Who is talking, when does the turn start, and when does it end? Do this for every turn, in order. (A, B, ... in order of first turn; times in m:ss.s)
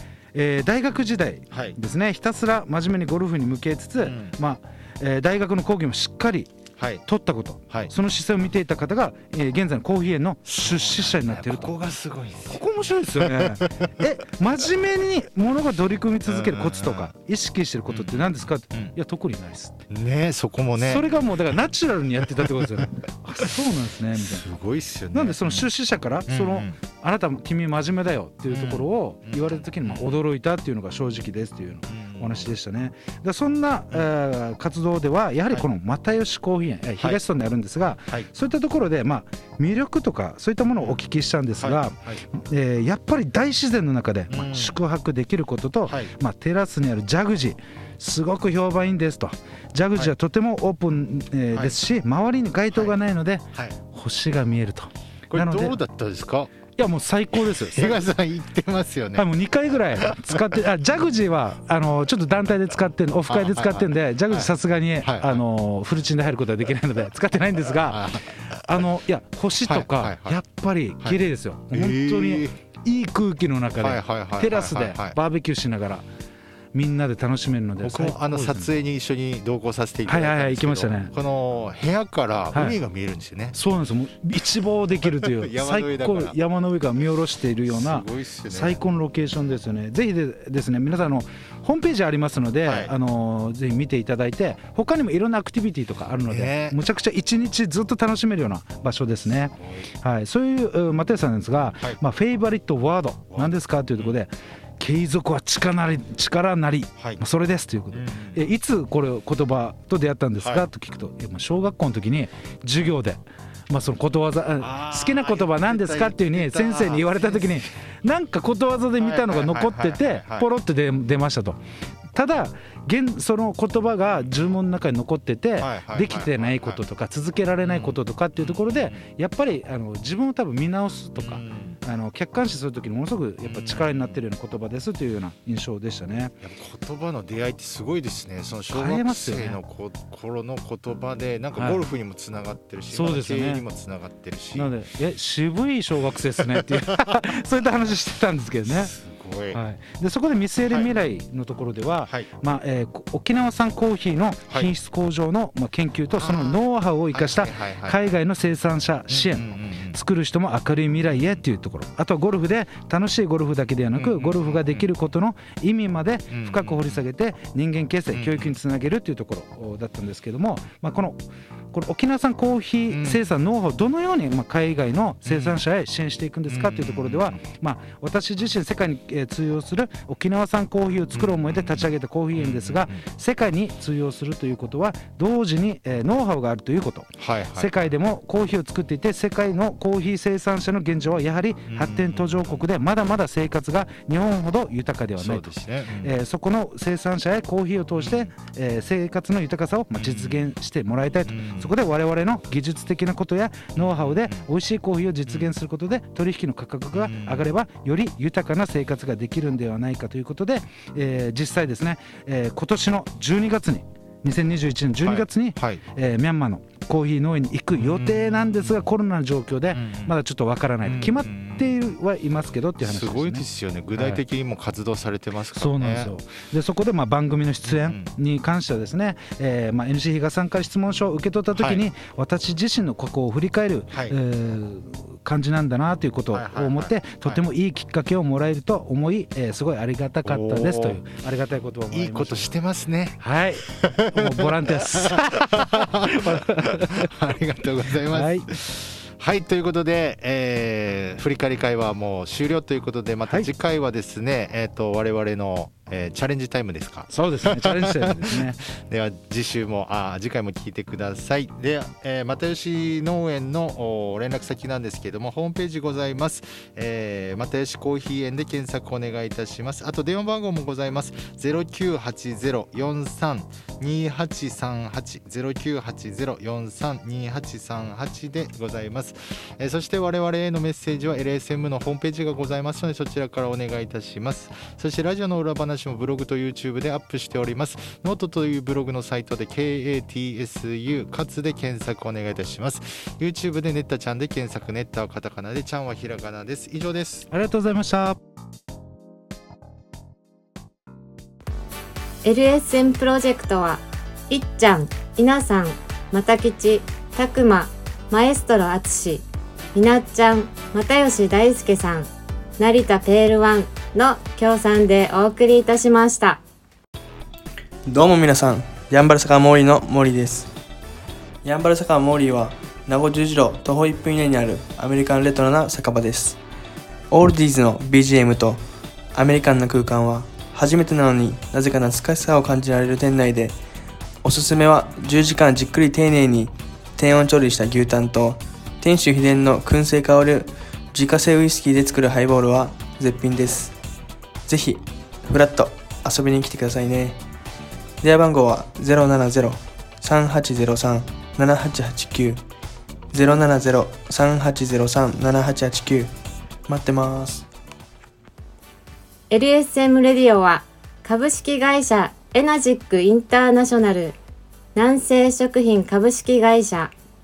0:00.3-0:06.5 A
0:01.5-0:01.8 B
0:04.0-0:04.4 B
0:07.0-0:11.8 A
0:10.4-0:12.6 B
0:12.5-0:19.8 A
0:13.2-0:13.9 B
0:16.2-0:17.1 B
0:17.9-0:18.9 B
0:19.9-0:21.1 B
0:20.8-0:24.4 A
0:24.2-0:25.7 B
0:25.1-0:55.8 A
0:26.3-0:26.8 B
0:28.5-0:30.1 B
0:31.9-0:32.5 B
0:41.6-0:42.2 B
0:44.3-0:44.8 B
0:45.9-0:46.1 B
0:51.5-0:51.8 B
0:55.3-0:56.5 B
0:56.8-0:58.0 A
0:57.4-0:59.3 B
0:59.1-1:16.0 A
1:00.0-1:00.4 B
1:03.3-1:04.5 B
1:05.0-1:05.4 B
1:07.8-1:08.3 B
1:09.6-1:10.4 B
1:11.7-1:12.5 B
1:13.8-1:15.2 B
1:16.7-1:18.7 A
1:17.8-1:23.6 B
1:20.0-1:21.1 A
1:22.5-1:22.8 A
1:23.5-2:01.6 A
1:25.1-1:26.4 B
1:27.7-1:28.8 B
1:32.6-1:32.9 B
1:36.2-1:36.8 B
1:43.3-1:44.2 B
1:47.9-1:48.4 B
1:54.6-1:57.6 B
1:59.0-2:00.5 B
2:02.1-2:16.3 A
2:05.6-2:06.8 B
2:07.6-2:09.0 B
2:11.2-2:11.8 B
2:13.4-2:14.2 B
2:16.4-2:24.7 B
2:18.7-2:19.6 A
2:21.6-2:21.8 A
2:22.9-2:23.6 A
2:24.5-2:28.9 A
2:26.4-2:26.9 B
2:28.7-2:29.6 B
2:29.5-2:51.2 A
2:36.2-2:36.6 B
2:37.1-2:38.2 B
2:39.1-2:40.0 B
2:41.1-2:41.4 B
2:43.9-2:44.8 B
2:46.3-2:47.0 B
2:48.1-2:48.5 B
2:51.7-3:43.4 A
2:52.9-2:53.2 B
2:55.2-2:55.6 B
2:56.5-2:57.4 B
3:01.1-3:03.0 B
3:07.2-3:07.7 B
3:11.7-3:12.6 B
3:15.2-3:16.1 B
3:18.0-3:18.3 B
3:19.9-3:20.5 B
3:21.3-3:21.7 B
3:23.8-3:24.4 B
3:25.3-3:25.5 B
3:26.9-3:27.5 B
3:35.0-3:35.8 B
3:37.8-3:38.9 B
3:39.7-3:40.1 B
3:40.8-3:41.7 B
3:42.8-3:46.1 B
3:44.0-3:44.2 A
3:45.5-4:02.5 A
3:47.6-3:48.1 B
3:51.6-3:51.8 B
3:56.3-3:57.4 B
4:00.2-4:01.0 B
4:01.9-4:57.2 B
4:03.2-4:07.1 A
4:08.0-4:08.5 A
4:17.1-4:18.6 A
4:57.3-4:58.2 A
5:02.2-5:16.4 C
5:17.8-5:20.5 D
5:21.4-5:26.4 D
5:27.1-5:33.6 D
5:34.2-5:43.7 D
5:44.5-5:47.2 D
5:48.0-5:52.4 D
5:53.1-5:56.1 D
5:56.7-5:57.5 D
5:59.3-6:04.2 C
6:04.7-6:06.9 C